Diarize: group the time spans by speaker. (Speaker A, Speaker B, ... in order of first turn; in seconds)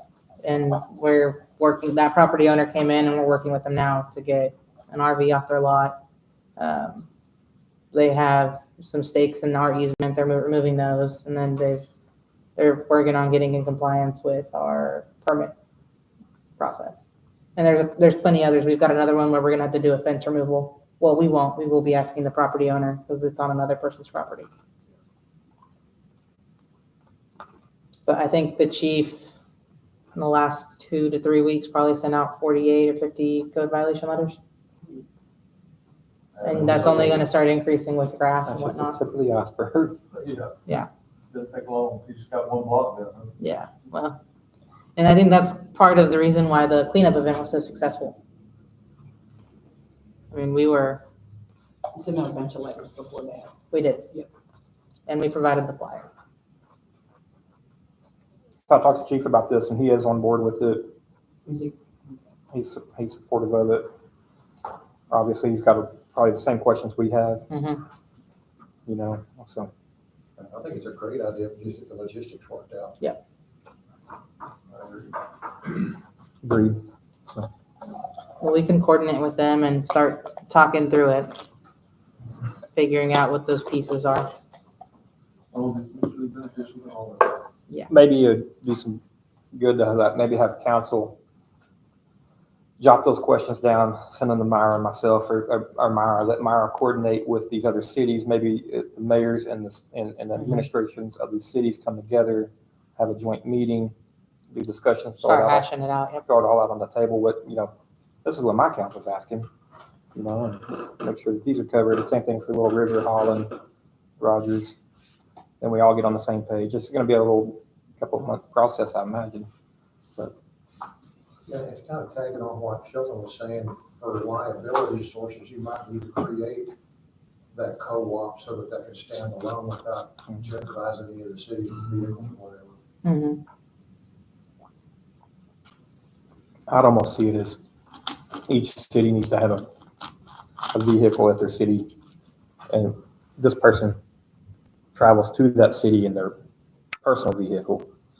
Speaker A: 0.4-6.0, 6.6-7.1, 7.9-11.9, 12.6-15.5, 16.6-17.0, 17.6-24.5, 28.1-29.3, 30.1-34.4, 36.4-39.0, 43.4-44.2, 45.0-48.2, 50.3-51.0, 53.7-54.1, 55.1-56.1, 67.5-67.8, 78.4-81.4, 82.7-84.3, 105.2-106.3, 133.0-133.4
Speaker B: 36.4-37.2, 40.1-40.5, 41.3-43.3, 85.5-87.3
Speaker C: 36.6-37.2, 38.5-40.0, 58.7-60.9, 62.5-63.9, 65.1-67.5, 68.9-69.7, 76.4-76.8, 87.9-89.0, 89.5-91.2, 92.8-103.9, 104.5-105.7, 106.3-107.7, 108.2-109.5, 110.2-113.6, 114.2-114.8, 115.6-119.5, 136.7-137.6, 138.5-139.7, 140.7-141.9, 142.7-144.0, 144.9-146.4, 147.0-147.9
Speaker D: 51.9-53.5, 61.5-62.1
Speaker E: 70.4-73.0, 74.7-75.1, 121.5-126.7, 127.5-132.8